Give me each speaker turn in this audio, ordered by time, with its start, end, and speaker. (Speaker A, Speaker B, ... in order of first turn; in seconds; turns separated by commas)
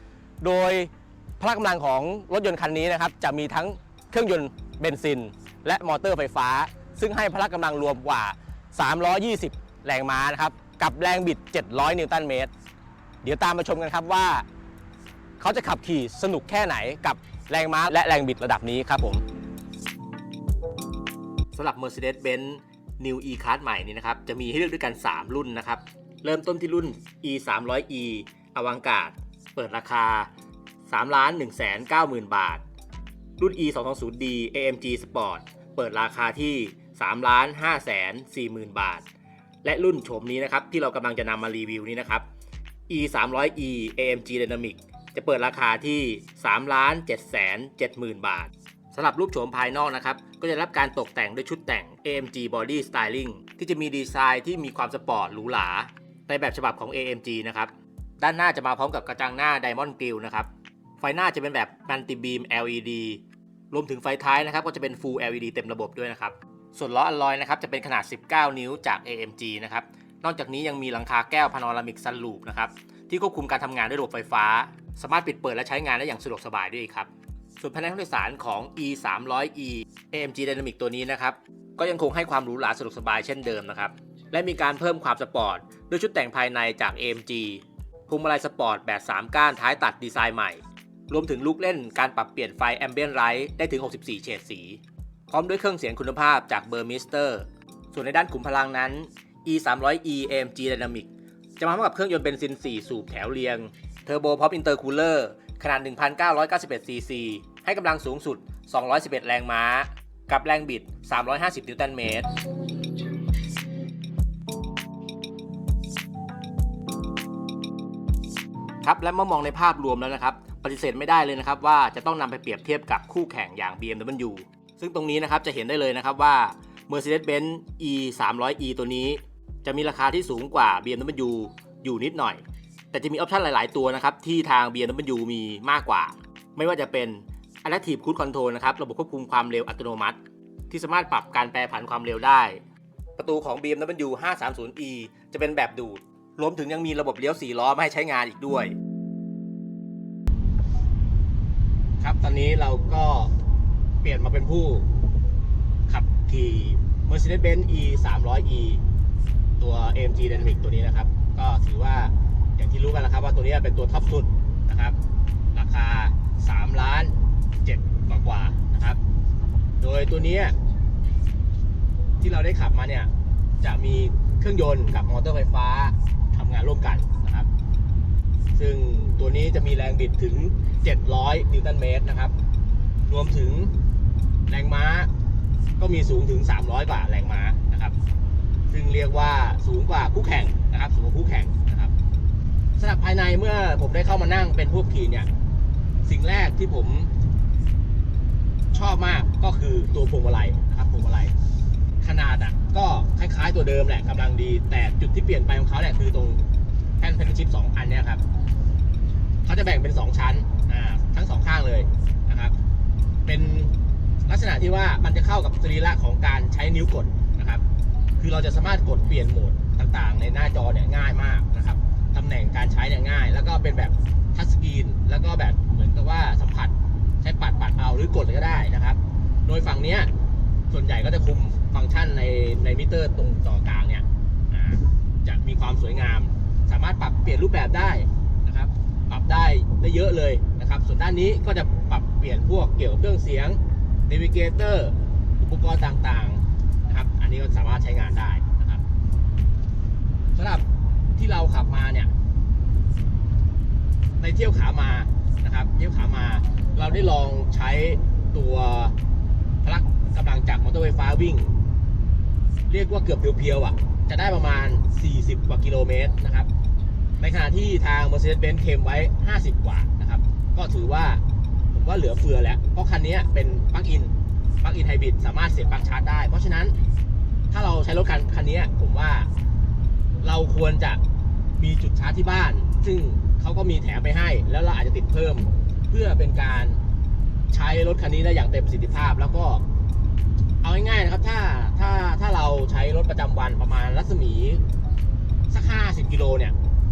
Speaker A: 0.4-12.5, Speaker A: 13.2-14.5, Speaker A: 15.4-19.2, Speaker A: 21.5-30.3, Speaker A: 30.9-32.6, Speaker A: 33.4-39.1, Speaker A: 39.6-42.3, Speaker A: 42.9-112.3, Speaker A: 118.8-140.2, Speaker A: 140.7-142.6, Speaker A: 143.2-148.7, Speaker A: 152.0-153.3, Speaker A: 154.0-154.9, Speaker A: 155.9-158.8, Speaker A: 159.6-165.0, Speaker A: 165.5-169.0, Speaker A: 169.8-170.6, Speaker A: 172.2-173.1, Speaker A: 173.6-177.5, Speaker A: 178.6-182.3, Speaker A: 183.1-183.8, Speaker A: 184.5-185.1, Speaker A: 185.8-187.9, Speaker A: 188.7-191.9, Speaker A: 192.8-195.3, Speaker A: 196.0-197.1, Speaker A: 198.7-201.3, Speaker A: 202.0-206.4, Speaker A: 207.0-208.2, Speaker A: 209.4-212.6, Speaker A: 213.2-213.8, Speaker A: 214.3-217.6, Speaker A: 218.2-230.1, Speaker A: 230.7-248.8, Speaker A: 250.3-252.1, Speaker A: 254.2-258.9, Speaker A: 259.6-261.5, Speaker A: 262.7-266.5, Speaker A: 267.2-271.2, Speaker A: 271.7-276.8, Speaker A: 277.5-279.3, Speaker A: 280.2-281.0, Speaker A: 281.6-286.8, Speaker A: 287.5-289.6, Speaker A: 290.6-294.6, Speaker A: 295.5-296.5